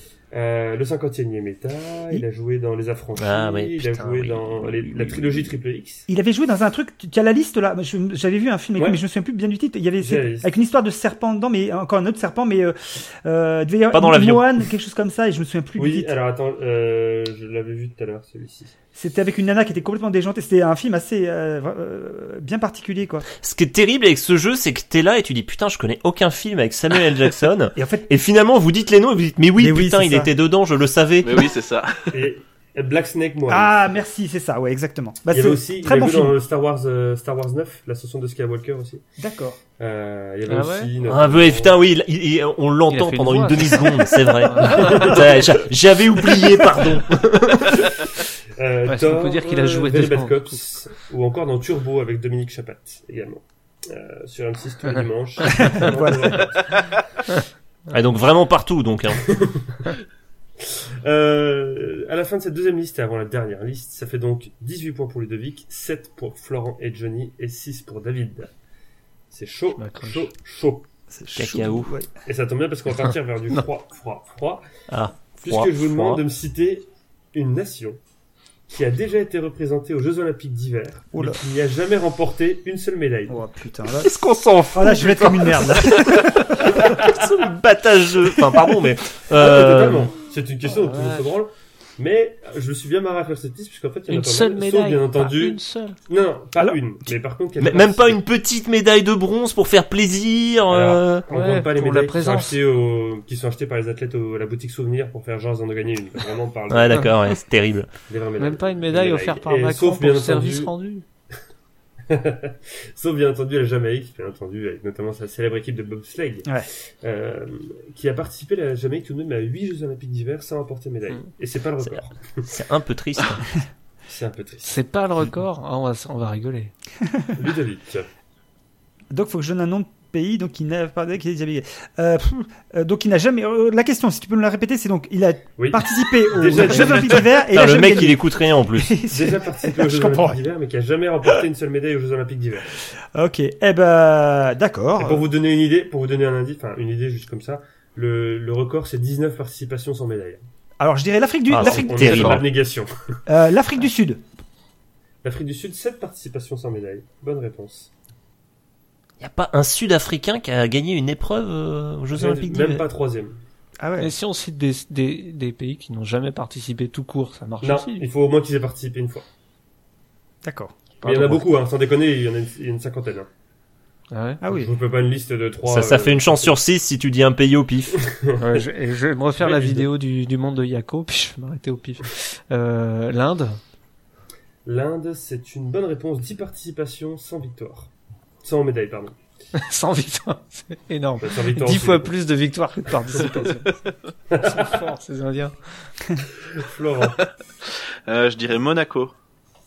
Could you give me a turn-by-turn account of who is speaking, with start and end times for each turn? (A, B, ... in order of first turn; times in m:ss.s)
0:00.3-0:06.1 A
0:03.2-0:05.5 B
0:06.1-0:16.1 C
0:10.0-0:10.5 A
0:13.9-0:14.6 B
0:15.8-0:18.7 A
0:19.0-0:23.3 C
0:23.4-0:31.5 B
0:27.8-0:28.1 C
0:29.6-0:30.3 C
0:31.2-0:32.1 D
0:32.1-0:33.8 A
0:33.5-0:36.4 C
0:35.3-0:39.0 A
0:39.2-0:39.6 C
0:39.8-0:41.8 A
0:40.5-0:40.9 E
0:41.0-0:48.0 B
0:42.9-0:45.1 E
0:44.6-0:45.5 A
0:48.6-0:56.9 A
0:48.9-0:50.6 E
0:55.5-0:56.4 C
0:57.9-0:59.3 B
0:59.2-0:59.8 A
1:00.6-1:08.5 A
1:09.3-1:10.9 A
1:09.8-1:10.3 E
1:11.1-1:12.1 C
1:11.4-1:11.9 B
1:12.3-1:14.6 A
1:14.9-1:16.2 B
1:15.4-1:18.0 A
1:18.7-1:23.4 A
1:21.1-1:21.4 C
1:23.3-1:24.2 C
1:24.0-1:30.1 B
1:24.7-1:26.5 C
1:29.3-1:38.2 A
1:30.7-1:31.3 E
1:34.1-1:36.0 E
1:37.6-1:41.3 B
1:40.7-1:47.1 A
1:41.3-1:42.6 E
1:46.7-1:47.9 B
1:48.1-1:50.7 A
1:48.4-1:51.0 E
1:52.1-2:02.6 A
2:02.5-2:03.4 B
2:04.1-2:04.8 A
2:04.6-2:06.7 E
2:07.4-2:08.1 A
2:09.1-2:20.4 C
2:15.6-2:17.3 A
2:17.4-2:19.0 B
2:19.1-2:22.7 A
2:23.1-2:25.2 C
2:25.0-2:30.4 A
2:30.8-2:32.4 C
2:31.5-2:32.4 B
2:31.6-2:32.9 A
2:33.3-2:34.2 C
2:35.2-2:37.9 A
2:39.2-2:42.8 B
2:42.1-2:43.4 A
2:43.8-2:44.1 C
2:44.0-2:48.1 E
2:47.6-2:49.2 A
2:50.4-2:51.2 C
2:51.0-2:53.3 A
2:54.1-2:54.4 E
2:54.4-2:54.7 C
2:54.5-2:56.6 A
2:55.7-2:58.1 B
2:58.1-2:58.4 A
2:58.4-3:03.6 E
2:59.4-2:59.9 A
3:04.6-3:07.9 A
3:08.4-3:09.2 A
3:09.5-3:15.6 E
3:11.2-3:12.1 A
3:14.3-3:14.8 A
3:16.6-3:17.2 A
3:17.6-3:19.1 D